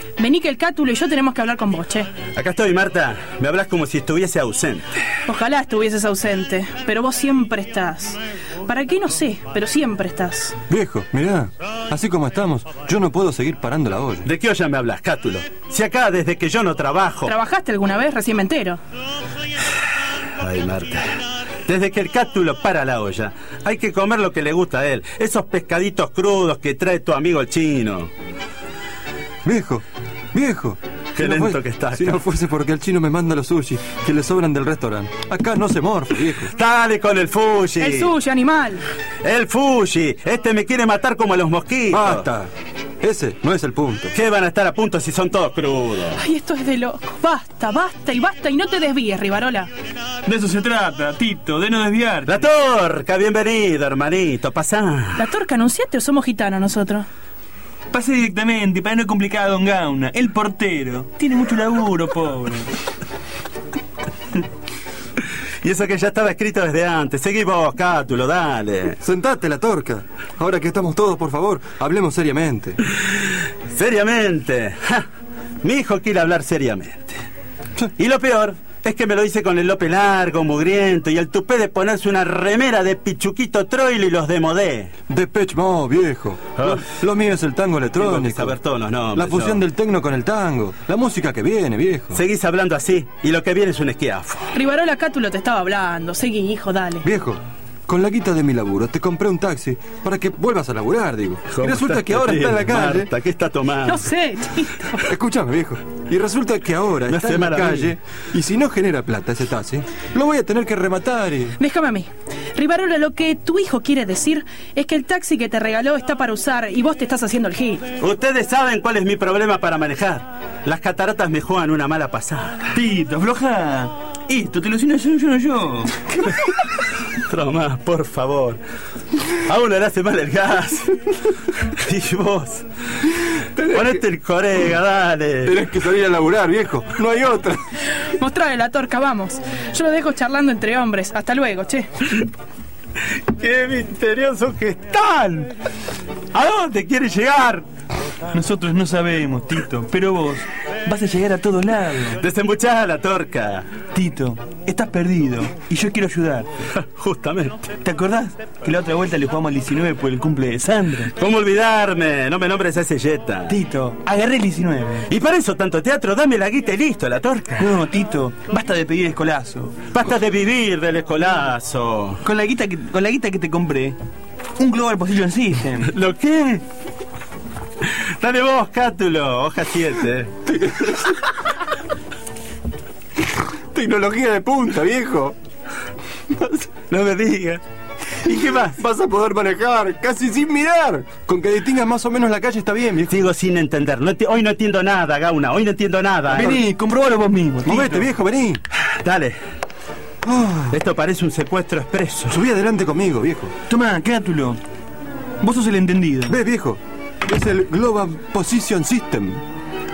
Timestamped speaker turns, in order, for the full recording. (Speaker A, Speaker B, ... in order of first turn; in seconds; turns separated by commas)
Speaker A: 0.2-2.1, Speaker B: 2.4-4.8, Speaker A: 5.2-10.6, Speaker C: 10.7-14.3, Speaker B: 14.2-17.3, Speaker A: 17.2-18.8, Speaker B: 20.4-21.1, Speaker B: 21.6-28.1, Speaker C: 29.4-36.5, Speaker B: 31.1-32.2, Speaker B: 36.5-38.1, Speaker A: 37.8-38.8, Speaker B: 39.2-42.3, Speaker C: 41.9-44.1, Speaker B: 44.1-46.2, Speaker A: 46.2-49.7, Speaker D: 50.2-52.3, Speaker B: 52.3-55.2, Speaker A: 55.1-57.0, Speaker D: 57.9-62.7, Speaker B: 65.6-69.0, Speaker C: 69.0-72.8, Speaker B: 73.7-75.0, Speaker B: 75.6-77.2, Speaker B: 78.0-84.9, Speaker C: 85.1-88.5, Speaker B: 86.6-86.8, Speaker B: 88.0-89.6, Speaker C: 89.1-92.2, Speaker B: 92.1-94.5, Speaker A: 94.5-97.0, Speaker C: 97.0-103.1, Speaker B: 101.5-104.0, Speaker A: 103.9-105.0, Speaker C: 105.0-111.5, Speaker B: 107.1-107.9, Speaker A: 111.6-117.8, Speaker B: 118.0-122.7, Speaker D: 122.7-126.0, Speaker B: 127.3-128.6, Speaker B: 129.4-131.0, Speaker B: 131.8-132.6, Speaker B: 133.6-135.5, Speaker C: 135.4-137.6, Speaker A: 138.1-141.9, Speaker B: 143.3-145.5, Speaker B: 146.3-147.7, Speaker D: 148.3-152.2, Speaker B: 152.2-153.7, Speaker D: 153.9-156.5, Speaker B: 156.8-157.7, Speaker D: 157.8-161.1, Speaker B: 161.2-163.6, Speaker D: 163.5-165.1, Speaker B: 165.1-167.7, Speaker D: 167.6-169.8, Speaker B: 169.9-172.2, Speaker D: 172.2-174.0, Speaker D: 174.6-175.9, Speaker B: 175.9-176.6, Speaker B: 177.8-180.3, Speaker C: 180.6-181.0, Speaker C: 183.7-185.3, Speaker B: 186.9-187.6, Speaker C: 188.3-193.1, Speaker B: 193.1-196.6, Speaker D: 196.4-198.0, Speaker C: 197.6-198.6, Speaker B: 199.0-199.4, Speaker C: 200.2-200.8, Speaker B: 200.7-202.4, Speaker C: 202.3-203.5, Speaker D: 203.7-204.6, Speaker D: 205.4-206.4, Speaker C: 206.3-209.4